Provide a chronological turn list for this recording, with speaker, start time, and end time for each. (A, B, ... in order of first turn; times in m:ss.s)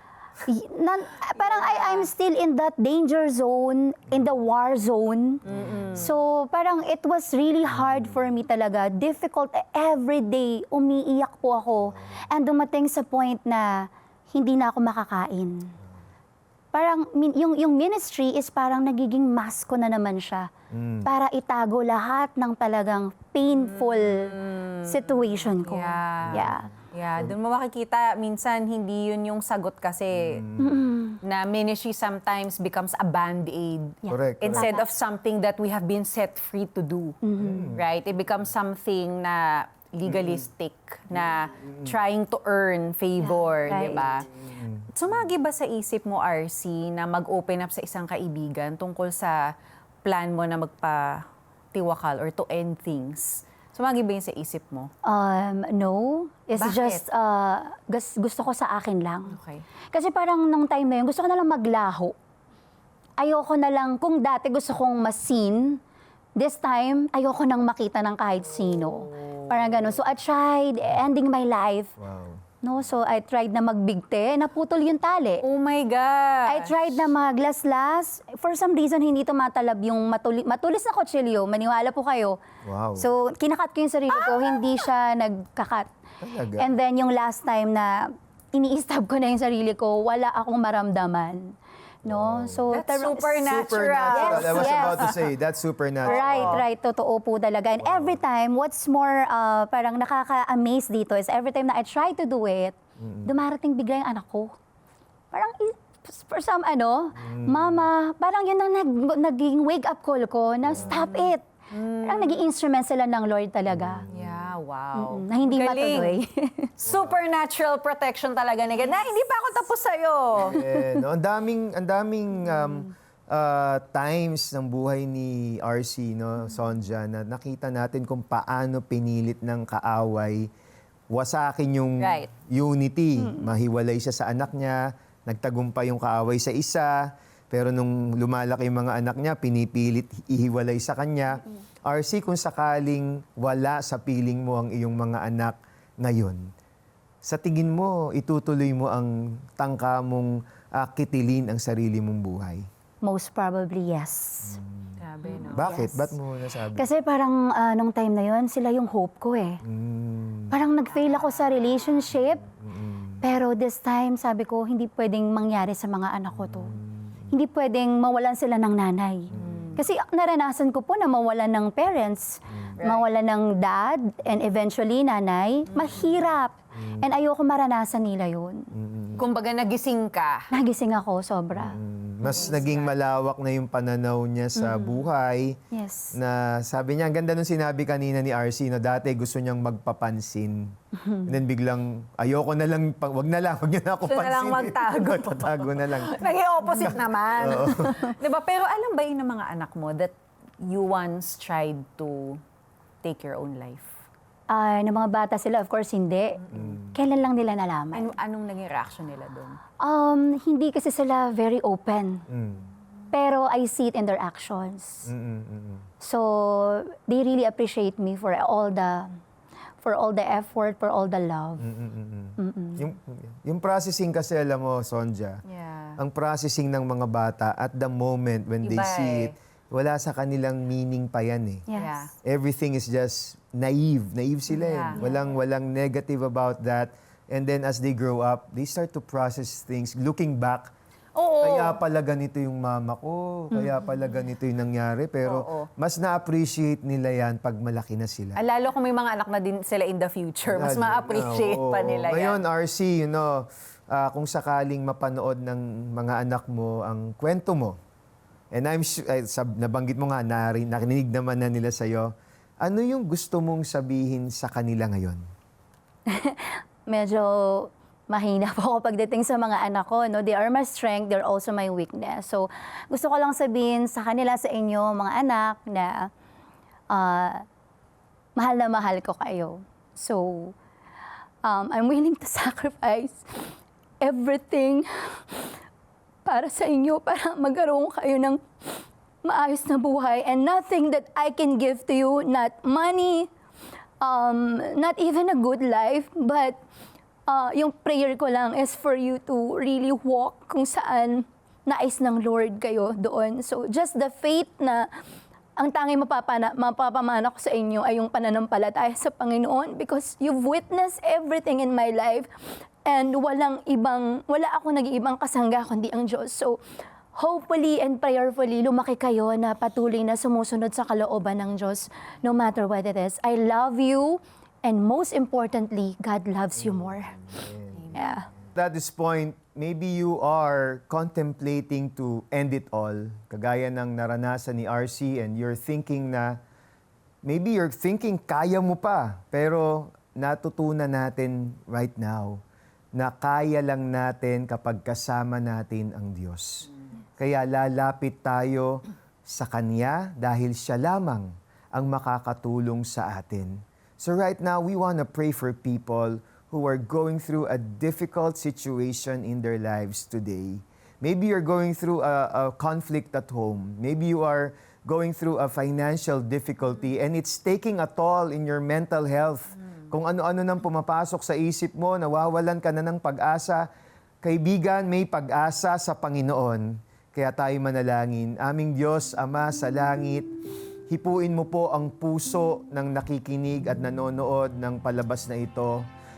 0:00.5-0:05.4 A
0:01.4-0:02.1 B
0:05.5-0:06.0 B
0:05.5-0:05.8 C
0:06.0-0:15.7 A
0:07.8-0:08.2 C
0:11.8-0:12.2 C
0:16.7-0:20.5 A
0:20.7-0:21.1 C
0:21.0-0:24.3 A
0:23.5-0:30.4 B
0:24.9-0:26.7 A
0:26.2-0:27.4 C
0:30.1-0:30.9 C
0:30.6-0:31.2 A
0:31.2-0:44.3 B
0:34.1-0:34.9 A
0:34.1-0:34.7 C
0:37.2-0:37.7 A
0:37.4-0:37.8 C
0:43.2-0:44.0 A
0:44.4-0:44.9 C
0:45.0-0:49.4 B
0:50.0-0:51.2 B
0:51.7-0:54.9 B
0:55.1-0:59.4 A
0:56.6-0:57.0 B
0:59.3-0:59.6 B
0:59.9-1:02.1 A
1:03.2-1:05.8 A
1:06.4-1:11.9 A
1:09.2-1:09.8 B
1:12.0-1:12.4 C
1:12.6-1:15.4 A
1:15.4-1:17.1 B
1:16.5-1:22.4 A
1:22.6-1:23.1 C
1:23.0-1:25.9 A
1:24.2-1:24.8 B
1:26.2-1:26.7 C
1:26.6-1:27.9 A
1:28.5-1:31.5 A
1:32.0-1:32.7 C
1:32.1-1:33.5 A
1:32.7-1:35.2 B
1:33.4-1:36.6 C
1:34.1-1:35.1 A
1:36.0-1:42.7 A
1:36.1-1:36.6 B
1:37.8-1:38.2 C
1:43.0-1:43.4 C
1:43.3-1:44.5 A
1:45.3-1:51.4 A
1:47.2-1:47.9 C
1:50.7-1:51.0 C
1:51.7-1:52.4 B
1:52.0-1:54.0 A
1:53.7-1:54.5 C
1:54.1-1:56.2 B
1:55.0-1:56.7 A
1:56.8-1:57.2 C
1:56.8-2:00.6 B
2:00.3-2:10.5 C
2:11.1-2:16.9 C
2:12.0-2:12.3 B
2:17.5-2:26.4 C
2:27.2-2:32.7 C
2:33.0-2:34.5 A
2:34.4-2:36.9 C
2:35.0-2:35.7 B
2:35.6-2:36.1 A
2:36.8-2:39.6 A
2:39.6-2:40.5 C
2:40.5-2:42.4 A
2:41.0-2:41.8 B
2:42.2-2:43.2 C
2:43.2-2:46.7 A
2:46.3-2:47.2 C
2:47.3-2:58.6 A
2:49.3-2:49.8 C
2:49.4-2:49.8 B
2:52.5-2:52.8 C
2:52.8-2:53.1 B
2:55.8-2:56.1 B
2:56.8-2:57.1 C
2:58.7-2:59.3 C
2:59.2-3:00.5 B
3:00.5-3:01.8 A
3:01.5-3:05.6 C
3:02.3-3:02.9 B
3:05.7-3:06.1 A
3:06.2-3:10.7 C
3:11.3-3:16.2 C
3:14.1-3:20.1 B
3:16.8-3:18.0 C
3:20.6-3:22.4 B
3:23.0-3:24.0 B
3:24.5-3:26.4 A
3:26.5-3:27.0 C
3:26.9-3:28.1 A
3:27.9-3:29.6 B
3:29.8-3:32.2 A
3:32.3-3:32.6 C
3:33.1-3:35.1 A
3:35.1-3:35.9 C
3:36.0-3:39.1 A
3:39.8-3:41.6 A
3:41.6-3:45.4 C
3:42.4-3:42.8 A
3:45.5-3:46.0 B
3:46.0-3:51.6 C
3:48.6-3:49.4 B
3:51.7-3:52.0 A
3:51.8-3:52.1 B
3:52.2-4:00.7 C
3:54.6-3:55.0 B
4:01.2-4:01.8 B
4:01.4-4:08.4 C
4:05.2-4:05.7 B
4:08.4-4:12.4 B
4:10.5-4:17.8 C
4:18.5-4:25.2 C
4:26.9-4:36.0 A
4:36.9-4:37.4 A
4:38.4-4:40.5 A
4:41.5-4:43.2 A
4:44.0-4:44.9 A
4:46.3-4:48.4 A
4:49.2-4:53.3 A
4:54.0-4:56.6 A
4:57.3-5:04.8 A
5:05.6-5:12.3 A
5:12.9-5:16.6 A
5:17.2-5:27.1 A
5:26.6-5:28.0 C
5:27.9-5:28.3 A
5:28.6-5:36.4 C
5:37.2-5:42.4 C
5:43.0-5:46.7 C
5:47.2-6:13.7 C
6:14.2-6:20.3 C
6:20.9-6:25.8 C